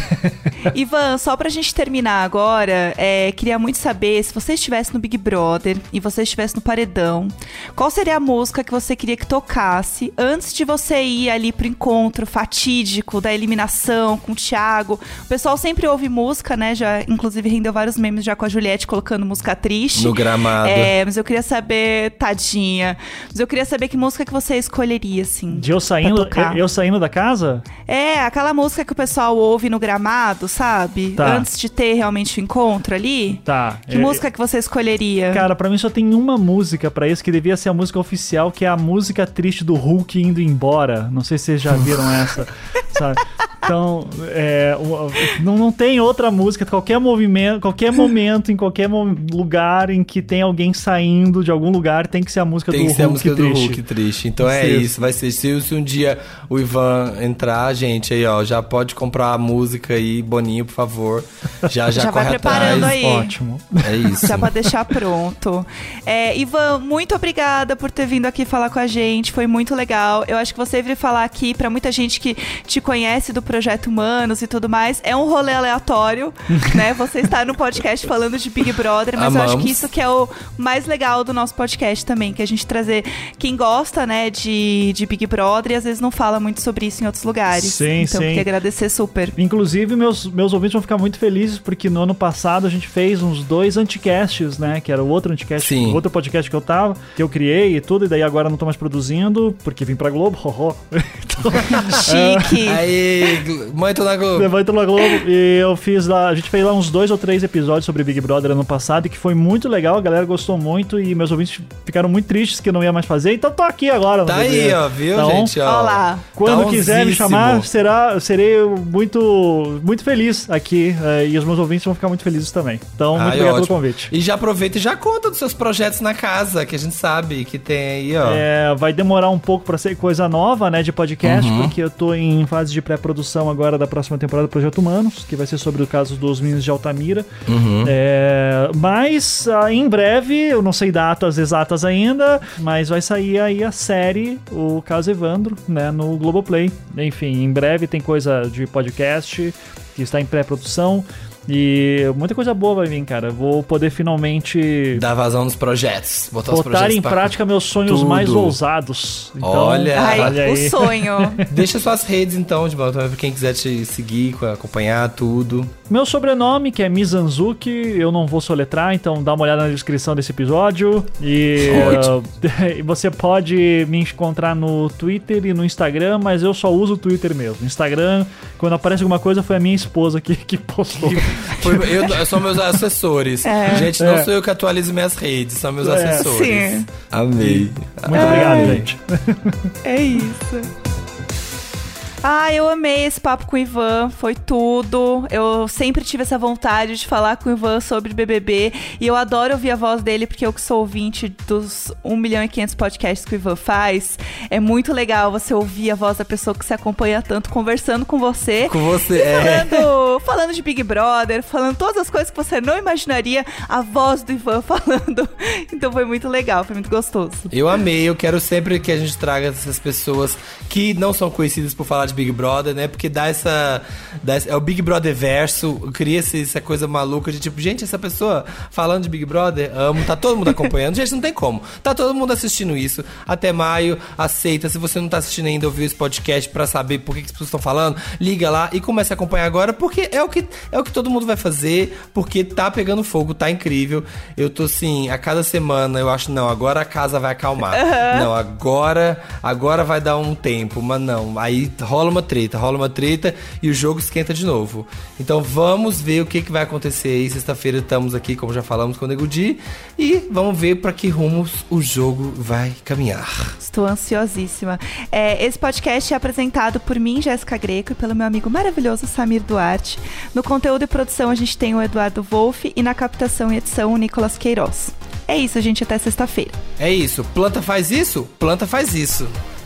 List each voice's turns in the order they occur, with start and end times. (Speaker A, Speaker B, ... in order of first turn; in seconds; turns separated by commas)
Speaker A: 0.6-26.6, Speaker B: 19.9-20.9, Speaker C: 25.5-27.6, Speaker A: 27.9-35.5, Speaker C: 31.2-31.5, Speaker C: 33.4-34.2, Speaker C: 35.3-53.8, Speaker B: 52.7-63.0, Speaker C: 54.4-54.9, Speaker A: 61.9-63.3, Speaker C: 62.5-64.2, Speaker B: 63.8-64.5, Speaker A: 64.2-89.3, Speaker B: 79.2-79.9, Speaker C: 87.5-88.5, Speaker C: 89.3-102.6, Speaker B: 95.6-96.0, Speaker B: 101.7-102.0, Speaker A: 102.0-102.8, Speaker B: 102.5-104.5, Speaker C: 104.3-115.5, Speaker B: 114.2-117.7, Speaker A: 115.6-116.2, Speaker C: 116.3-124.1, Speaker B: 123.1-128.4, Speaker C: 128.2-137.3, Speaker B: 131.2-131.7, Speaker B: 137.5-137.9, Speaker C: 137.8-155.0, Speaker B: 154.9-158.6, Speaker C: 156.5-161.5, Speaker B: 159.4-160.4, Speaker A: 159.9-161.4, Speaker B: 161.5-165.7, Speaker C: 165.9-182.1, Speaker B: 171.6-172.1, Speaker B: 180.9-188.9, Speaker A: 183.4-183.9, Speaker C: 184.0-184.3, Speaker C: 185.8-186.2, Speaker A: 186.1-186.9, Speaker C: 187.4-189.7, Speaker A: 188.1-188.8, Speaker A: 189.8-190.7, Speaker A: 192.2-217.5, Speaker B: 208.6-209.9, Speaker B: 217.5-263.6, Speaker A: 247.7-248.3, Speaker A: 263.6-276.6, Speaker B: 276.8-279.4